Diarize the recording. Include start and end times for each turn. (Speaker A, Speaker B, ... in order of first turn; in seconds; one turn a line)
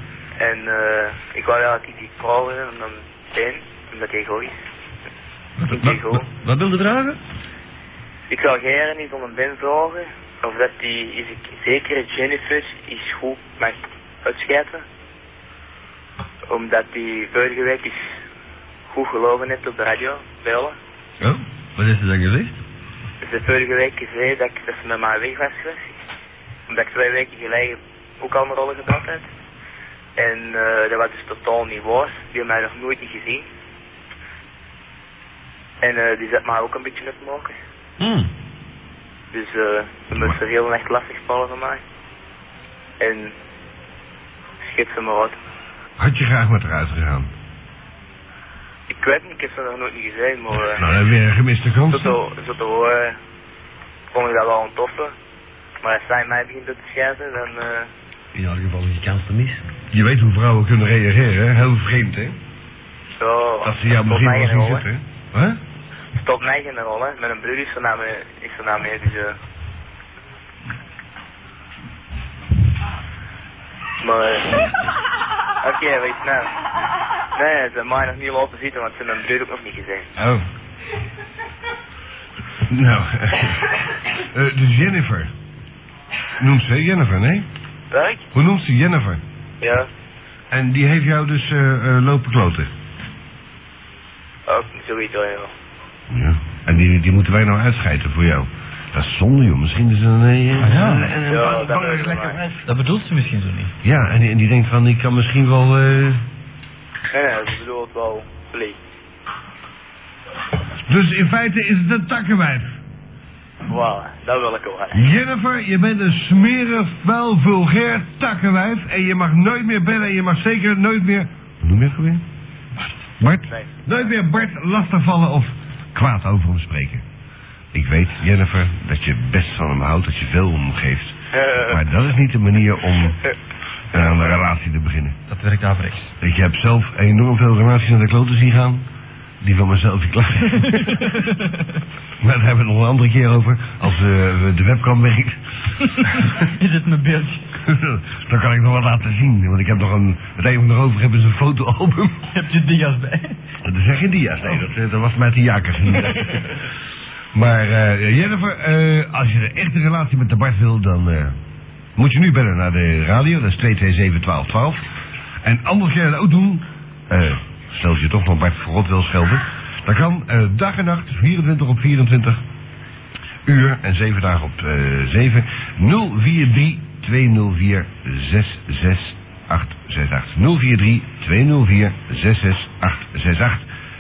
Speaker A: 0.4-4.6
Speaker B: 5.6-7.2
Speaker A: 5.7-6.3
Speaker A: 8.3-14.8
Speaker A: 16.5-18.2
Speaker A: 18.9-20.8
Speaker B: 21.2-22.6
Speaker A: 23.2-26.0
Speaker A: 26.7-29.3
Speaker A: 30.2-33.5
Speaker A: 35.8-37.6
Speaker B: 38.0-38.3
Speaker A: 39.3-41.8
Speaker C: 40.1-40.4
Speaker A: 43.0-43.3
Speaker A: 44.6-45.4
Speaker C: 46.0-47.3
Speaker A: 48.9-50.9
Speaker C: 50.5-52.2
Speaker A: 51.9-53.2
Speaker A: 54.1-55.1
Speaker A: 55.8-57.9
Speaker B: 58.3-59.6
Speaker C: 59.9-62.4
Speaker A: 63.2-64.8
Speaker C: 63.6-65.6
Speaker A: 66.2-69.4
Speaker A: 74.0-74.6
Speaker A: 75.6-76.5
Speaker A: 77.3-80.1
Speaker D: 80.2-80.4
Speaker C: 82.7-83.6
Speaker C: 84.2-85.3
Speaker C: 86.4-87.5
Speaker A: 87.9-88.3
Speaker C: 88.3-89.2
Speaker A: 89.6-89.9
Speaker C: 90.5-92.7
Speaker A: 94.5-95.5
Speaker C: 96.1-102.6
Speaker D: 100.6-101.1
Speaker A: 101.2-102.4
Speaker D: 102.7-103.7
Speaker C: 103.8-106.2
Speaker A: 107.1-108.8
Speaker C: 110.9-112.7
Speaker A: 113.7-115.1
Speaker C: 114.9-122.2
Speaker C: 123.2-127.0
Speaker A: 123.5-124.1
Speaker C: 127.7-133.2
Speaker A: 131.3-131.8
Speaker C: 133.9-135.2
Speaker A: 133.9-134.4
Speaker D: 135.3-136.1
Speaker C: 136.2-138.8
Speaker C: 139.4-141.0
Speaker D: 140.6-141.8
Speaker C: 142.2-145.4
Speaker D: 145.9-147.5
Speaker C: 147.6-152.2
Speaker D: 152.3-153.4
Speaker C: 153.6-156.4
Speaker D: 155.9-156.6
Speaker C: 157.3-161.3
Speaker C: 162.0-164.8
Speaker C: 165.4-172.4
Speaker C: 173.5-183.7